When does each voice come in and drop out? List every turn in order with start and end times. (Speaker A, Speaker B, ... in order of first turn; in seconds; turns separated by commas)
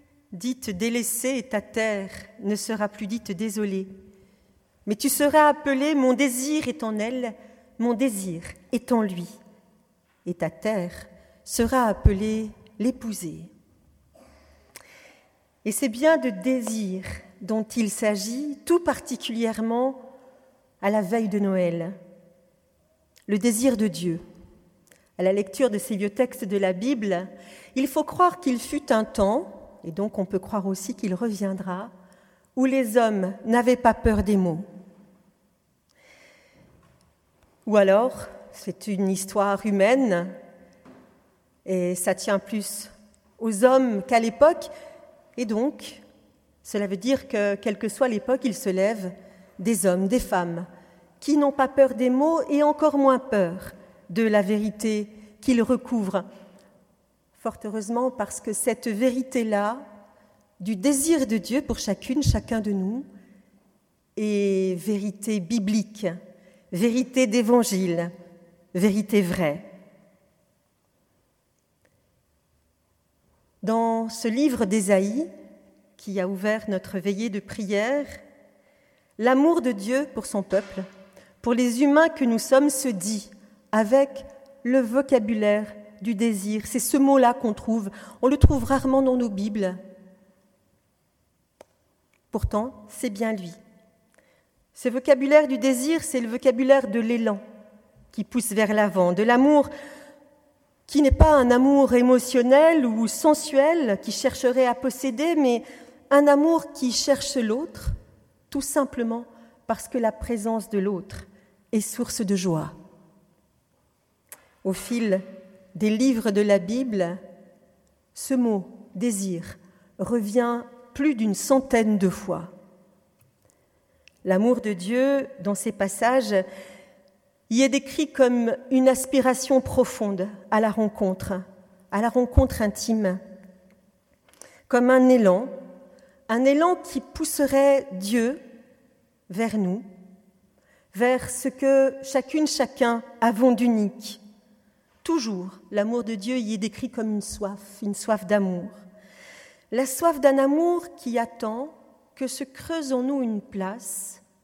Speaker A: 0.3-3.9, Speaker A: 4.9-9.4, Speaker A: 10.2-13.5, Speaker A: 15.6-20.0, Speaker A: 20.8-21.9, Speaker A: 23.3-24.2, Speaker A: 25.2-31.9, Speaker A: 32.6-34.7, Speaker A: 37.7-40.3, Speaker A: 41.7-44.7, Speaker A: 45.4-46.0, Speaker A: 46.6-50.7, Speaker A: 51.2-56.3, Speaker A: 57.4-59.9, Speaker A: 60.6-63.1, Speaker A: 64.2-66.2, Speaker A: 66.7-68.1, Speaker A: 68.7-69.7, Speaker A: 73.6-75.3, Speaker A: 76.0-78.2, Speaker A: 79.2-80.9, Speaker A: 81.4-89.8, Speaker A: 92.3-93.6, Speaker A: 94.8-97.4, Speaker A: 98.1-99.7, Speaker A: 100.9-107.9, Speaker A: 108.5-112.8, Speaker A: 114.6-115.2, Speaker A: 115.8-117.2, Speaker A: 118.1-122.5, Speaker A: 124.2-126.4, Speaker A: 127.5-133.2, Speaker A: 134.7-135.5, Speaker A: 136.3-138.4, Speaker A: 139.3-139.9, Speaker A: 140.9-144.2, Speaker A: 145.0-148.8, Speaker A: 149.7-154.2